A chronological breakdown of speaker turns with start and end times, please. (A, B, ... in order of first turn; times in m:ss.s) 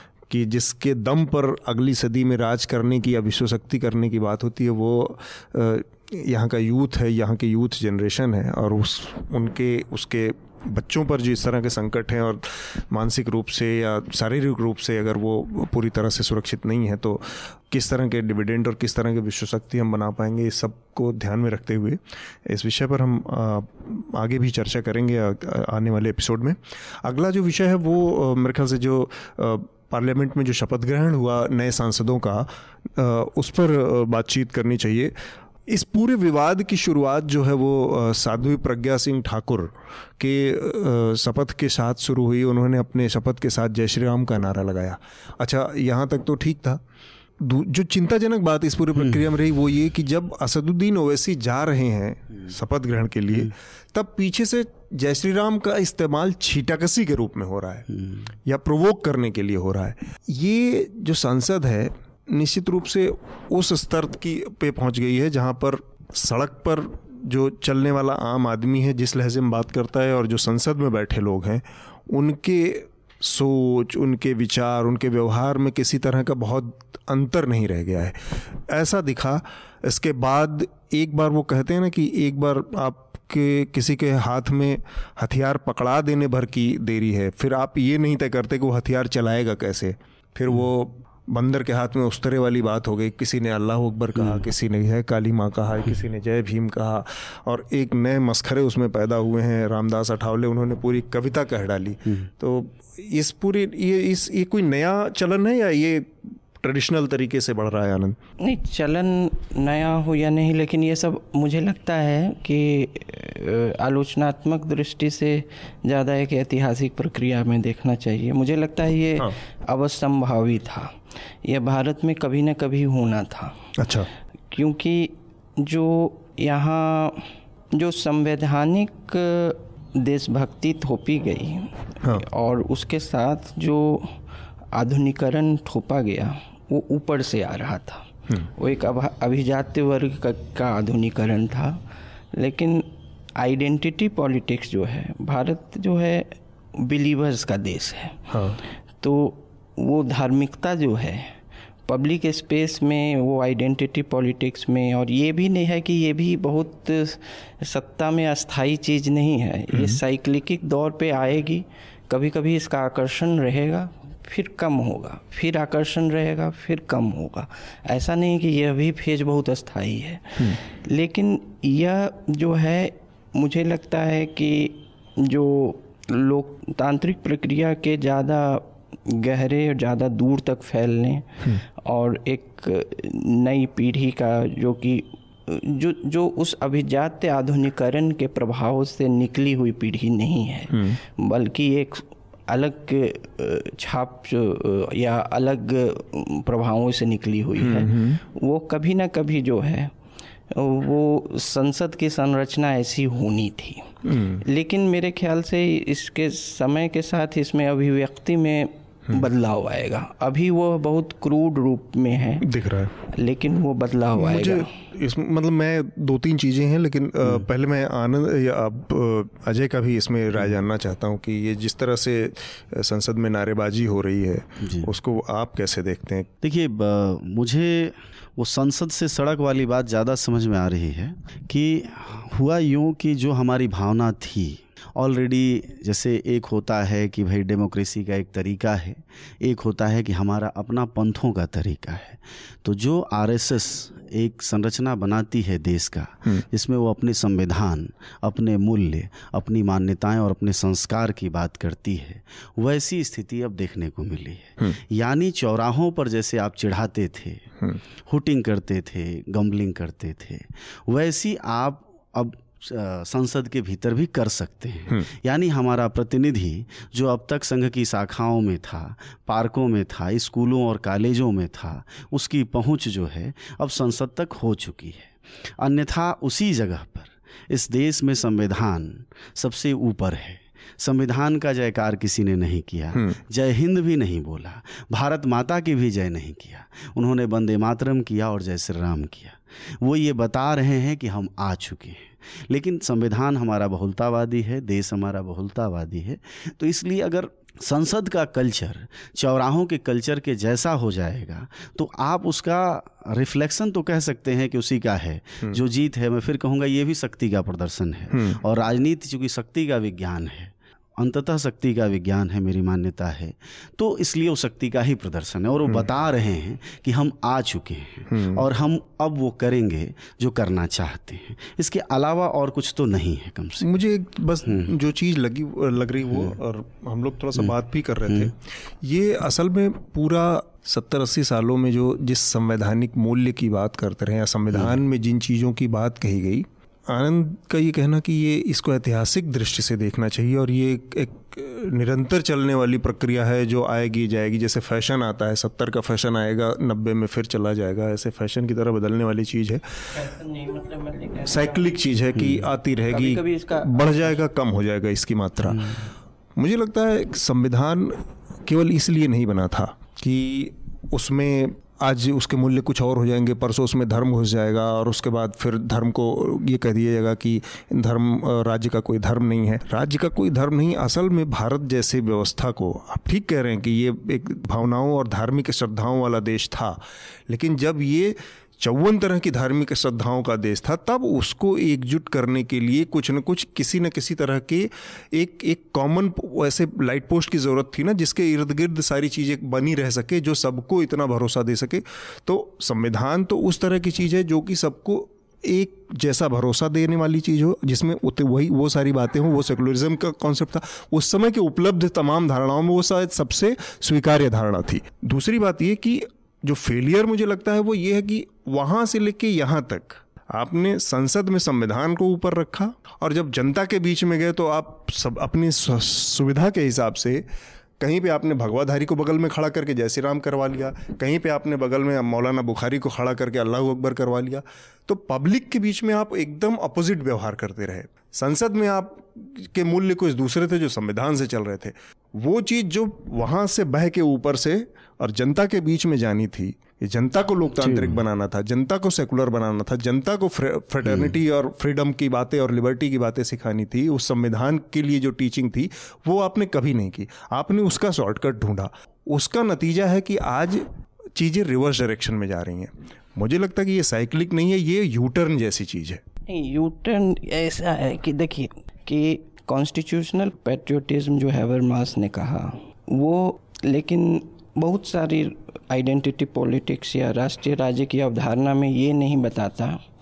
0:00.3-0:35.1 A
0:35.7-0:46.8 A
0:47.4-0:57.9 A
0:57.9-0:58.2 B
0:58.4-1:48.2 A
1:34.2-1:34.4 B
1:48.4-2:03.7 C
2:03.8-2:04.1 A
2:04.5-2:14.2 C
2:14.7-2:21.8 C
2:22.3-2:28.3 C
2:28.3-2:28.6 A
2:29.0-2:31.4 C
2:31.9-3:19.9 C
2:39.7-2:40.0 A
3:10.7-3:11.0 A
3:17.6-3:18.2 A
3:20.5-3:32.5 C
3:24.1-3:24.4 A
3:32.4-3:32.9 A
3:33.1-3:34.7 C
3:34.2-3:46.3 A
3:44.6-3:44.9 B
3:46.4-4:17.5 B
4:18.1-5:23.7 B
5:08.1-5:08.4 A
5:18.1-5:18.5 A
5:23.6-5:50.0 A
5:24.4-5:24.8 B
5:26.1-5:26.4 B
5:34.5-5:34.8 B
5:49.9-5:51.8 C
5:51.3-6:57.2 A
5:52.2-5:52.4 B
5:52.9-5:54.0 C
5:55.5-5:55.8 B
6:57.8-7:36.0 A
7:17.6-7:18.0 B
7:20.8-7:21.1 B
7:36.3-7:49.8 C